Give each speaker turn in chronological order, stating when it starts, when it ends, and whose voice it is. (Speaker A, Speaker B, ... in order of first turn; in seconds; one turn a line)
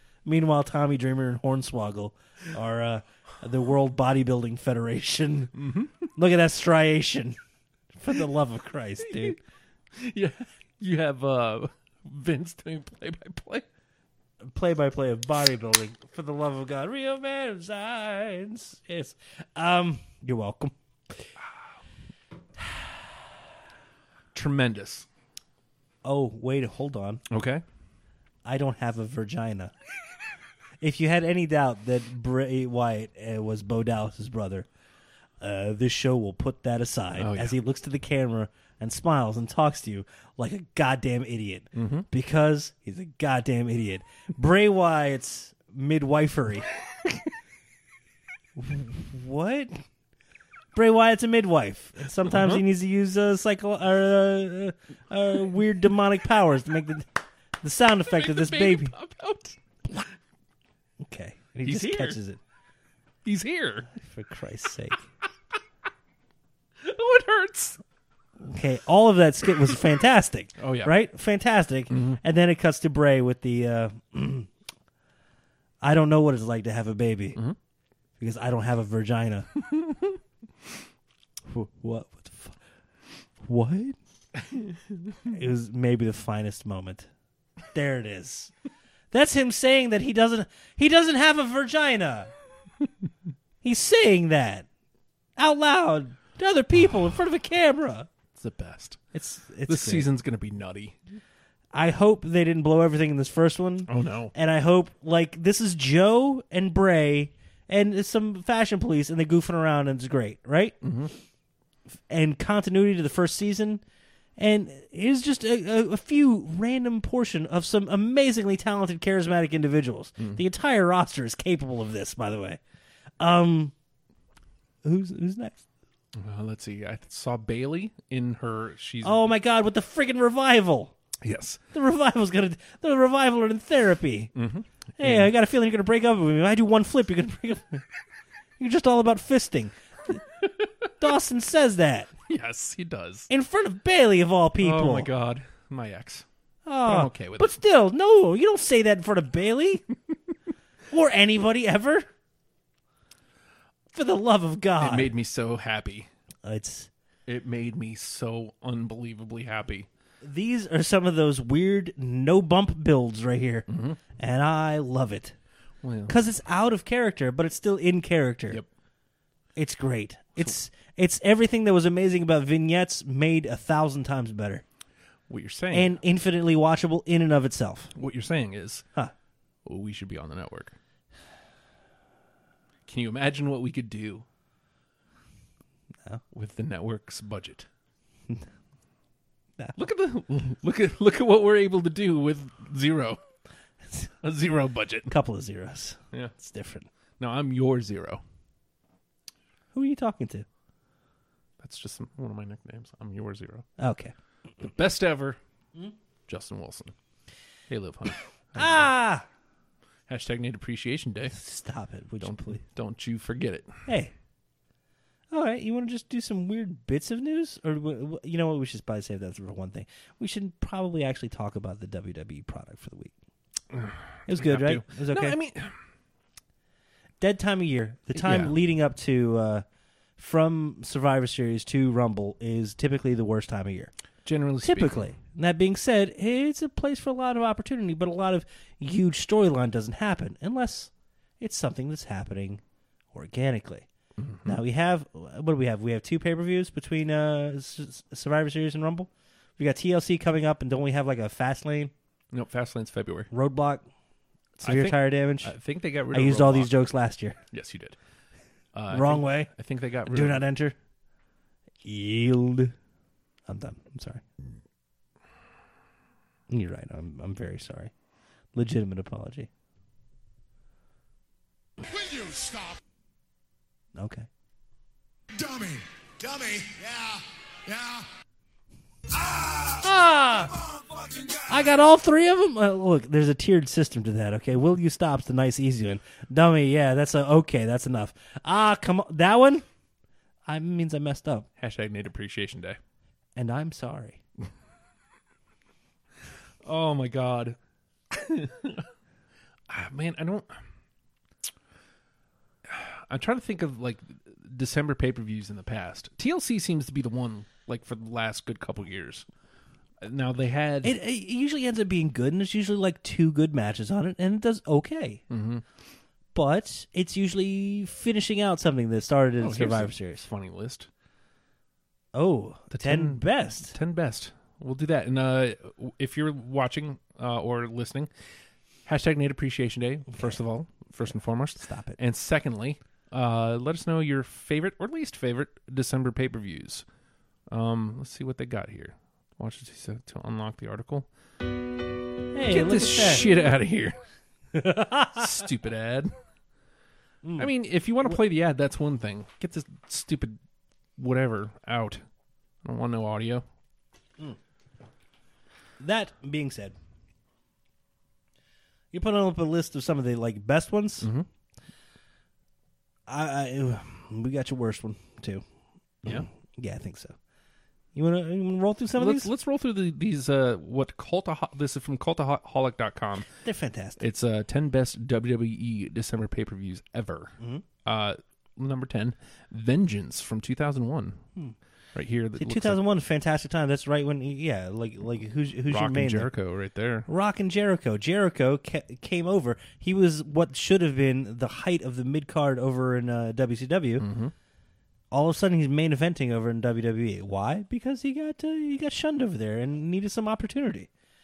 Speaker A: 0.2-5.5
Speaker B: 5.6-6.1
Speaker A: 6.1-7.3
Speaker A: 8.0-9.4
Speaker B: 9.1-9.3
Speaker B: 9.9-13.7
Speaker A: 14.4-21.3
Speaker B: 24.3-25.1
Speaker A: 26.0-27.2
Speaker B: 27.3-27.6
Speaker A: 28.4-29.7
Speaker A: 30.8-34.7
Speaker A: 35.4-46.7
Speaker B: 37.2-37.6
Speaker B: 41.7-42.1
Speaker A: 48.6-49.8
Speaker A: 50.7-57.1
Speaker B: 52.2-52.6
Speaker A: 57.6-58.9
Speaker B: 58.1-60.1
Speaker A: 61.0-62.4
Speaker B: 61.6-62.2
Speaker B: 63.2-63.9
Speaker A: 64.0-65.1
Speaker B: 66.8-67.8
Speaker A: 68.4-74.5
Speaker B: 70.6-70.9
Speaker B: 71.9-72.2
Speaker A: 75.8-77.4
Speaker A: 78.2-79.5
Speaker A: 81.5-82.6
Speaker A: 83.4-84.0
Speaker A: 85.2-87.1
Speaker A: 87.7-88.5
Speaker A: 89.1-92.3
Speaker A: 93.6-94.7
Speaker A: 95.4-98.1
Speaker B: 98.3-99.1
Speaker A: 99.1-100.1
Speaker B: 99.7-101.0
Speaker A: 101.7-110.8
Speaker B: 103.9-104.3
Speaker B: 110.8-111.1
Speaker A: 112.1-113.8
Speaker A: 114.4-122.6
Speaker A: 123.2-123.7
Speaker A: 124.8-125.6
Speaker B: 126.1-129.2
Speaker A: 129.0-130.9
Speaker B: 131.2-131.6
Speaker A: 131.7-134.3
Speaker B: 134.3-135.3
Speaker A: 135.0-137.8
Speaker A: 138.6-140.2
Speaker A: 141.0-142.1
Speaker B: 142.3-143.3
Speaker A: 143.3-145.1
Speaker B: 144.6-146.2
Speaker A: 146.7-149.8
Speaker B: 146.8-147.6
Speaker A: 150.9-152.1
Speaker A: 153.9-155.1
Speaker B: 154.8-156.1
Speaker A: 156.4-156.9
Speaker B: 157.3-159.9
Speaker A: 160.2-165.3
Speaker B: 163.7-164.0
Speaker B: 165.8-166.1
Speaker A: 166.1-168.6
Speaker A: 169.6-174.6
Speaker B: 175.3-175.9
Speaker A: 175.7-177.9
Speaker B: 177.9-178.8
Speaker B: 179.6-180.8
Speaker B: 182.8-184.2
Speaker B: 186.3-187.7
Speaker B: 189.7-193.2
Speaker B: 194.2-195.1
Speaker A: 195.1-196.9
Speaker B: 197.2-198.2
Speaker A: 199.7-200.4
Speaker B: 201.6-203.7
Speaker A: 203.8-204.1
Speaker B: 204.6-205.4
Speaker B: 206.3-206.9
Speaker B: 207.7-208.9
Speaker A: 208.6-209.3
Speaker B: 210.1-211.3
Speaker A: 211.3-212.6
Speaker B: 212.2-213.8
Speaker A: 213.8-214.1
Speaker A: 215.3-223.1
Speaker B: 223.7-225.7
Speaker A: 224.3-225.3
Speaker A: 227.2-229.6
Speaker B: 228.2-228.6
Speaker A: 230.2-233.9
Speaker B: 234.2-235.0
Speaker A: 234.6-242.6
Speaker A: 243.1-243.9
Speaker B: 244.2-244.6
Speaker A: 244.4-251.9
Speaker B: 252.3-253.3
Speaker A: 253.3-253.8
Speaker B: 254.6-256.7
Speaker A: 254.6-255.5
Speaker A: 256.1-257.4
Speaker B: 257.5-258.0
Speaker B: 258.7-260.4
Speaker A: 258.9-259.5
Speaker A: 260.1-260.7
Speaker A: 261.8-262.7
Speaker A: 263.5-264.2
Speaker A: 266.5-267.9
Speaker A: 268.5-269.5
Speaker C: 271.8-272.8
Speaker A: 273.9-274.3
Speaker C: 275.3-278.1
Speaker C: 279.1-281.8
Speaker A: 279.8-280.5
Speaker A: 281.5-289.6
Speaker A: 290.5-291.5
Speaker B: 291.6-292.8
Speaker A: 293.4-294.2
Speaker B: 296.6-297.6
Speaker B: 298.1-298.9
Speaker B: 299.7-300.6
Speaker B: 302.6-309.2
Speaker B: 310.0-310.9
Speaker A: 310.8-315.2
Speaker B: 315.3-315.6
Speaker A: 316.3-320.2
Speaker B: 319.4-320.9
Speaker A: 322.1-323.7
Speaker B: 322.7-328.1
Speaker B: 328.9-336.9
Speaker A: 331.6-332.0
Speaker B: 337.5-341.1
Speaker A: 342.3-343.4
Speaker B: 342.5-343.9
Speaker A: 344.5-345.2
Speaker B: 345.1-346.1
Speaker A: 347.2-347.5
Speaker B: 347.4-350.4
Speaker B: 351.0-352.0
Speaker B: 352.6-353.4
Speaker A: 355.8-356.7
Speaker A: 358.9-361.1
Speaker B: 361.0-361.3
Speaker A: 363.1-365.4
Speaker A: 366.0-367.1
Speaker A: 367.9-369.3
Speaker B: 369.0-373.3
Speaker A: 373.4-374.0
Speaker B: 374.0-381.2
Speaker A: 377.4-377.6
Speaker B: 381.9-382.8
Speaker A: 382.4-386.3
Speaker B: 385.7-387.1
Speaker A: 387.1-394.1
Speaker B: 394.0-394.3
Speaker A: 395.1-400.9